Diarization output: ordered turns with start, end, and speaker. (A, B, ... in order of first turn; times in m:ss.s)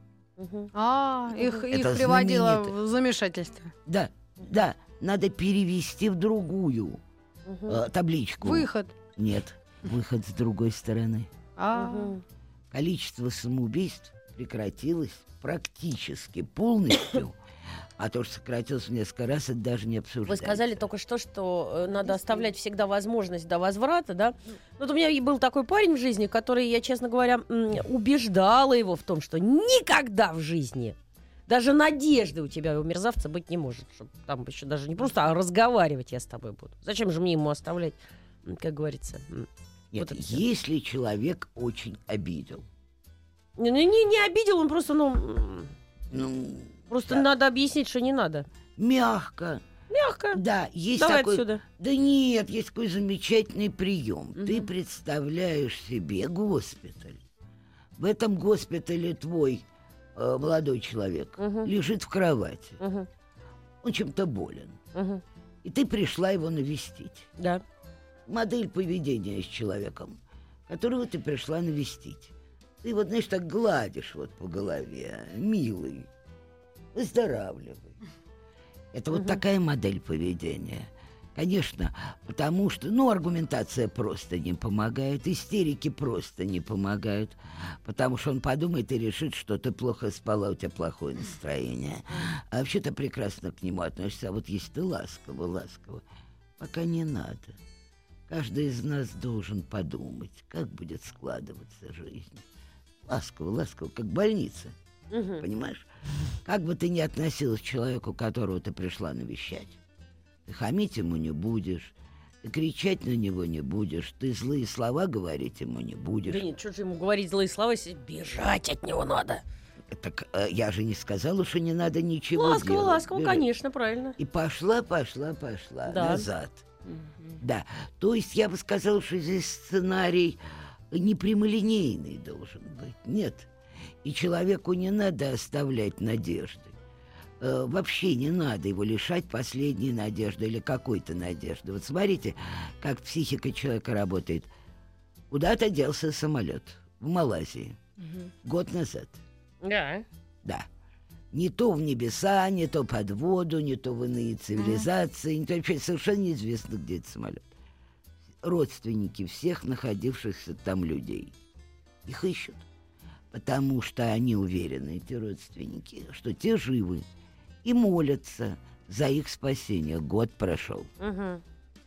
0:00.4-0:00.7 A
0:00.7-0:03.7 B
0:01.7-0:02.7 C
0:03.8-0:07.0 C
0:07.4-0:07.8 A
0:07.7-0:11.3 C
0:08.4-0:08.9 B
0:11.6-0:12.1 B
0:11.7-0:12.2 A
0:12.7-0:17.4 C
0:18.0-0:20.9 C
0:20.3-0:31.0 A
0:31.5-0:40.4 A
0:39.9-0:42.7 C
0:43.6-0:45.7 A
0:46.1-0:47.3 C
0:46.9-0:48.5 A
0:48.8-0:49.6 C
0:49.9-0:50.4 A
0:50.3-0:57.2 C
0:51.0-0:51.6 A
0:54.4-0:54.7 A
0:58.0-1:02.8 C
1:01.4-1:01.7 A
1:02.8-1:03.1 A
1:03.8-1:04.8 C
1:04.9-1:05.2 A
1:05.6-1:07.3 C
1:07.4-1:07.6 A
1:08.3-1:12.3 C
1:12.8-1:16.1 C
1:16.9-1:18.0 C
1:18.9-1:36.0 C
1:19.1-1:19.4 A
1:36.6-1:37.6 C
1:38.3-1:42.4 C
1:43.0-1:44.7 C
1:45.1-1:45.4 A
1:45.4-1:45.8 C
1:46.4-1:49.8 C
1:50.4-1:56.4 C
1:56.2-1:59.4 A
1:59.9-2:03.4 C
2:02.3-2:04.2 A
2:04.2-2:06.6 C
2:05.8-2:06.3 A
2:07.4-2:10.4 C
2:10.9-2:13.5 C
2:14.0-2:16.8 C
2:17.4-2:24.5 C
2:25.3-2:27.8 C
2:28.4-2:29.2 C
2:29.6-2:30.0 A
2:31.3-2:37.4 C
2:38.4-2:41.3 C
2:42.0-2:42.6 C
2:43.3-2:47.0 C
2:47.6-2:50.9 C
2:51.0-2:51.4 A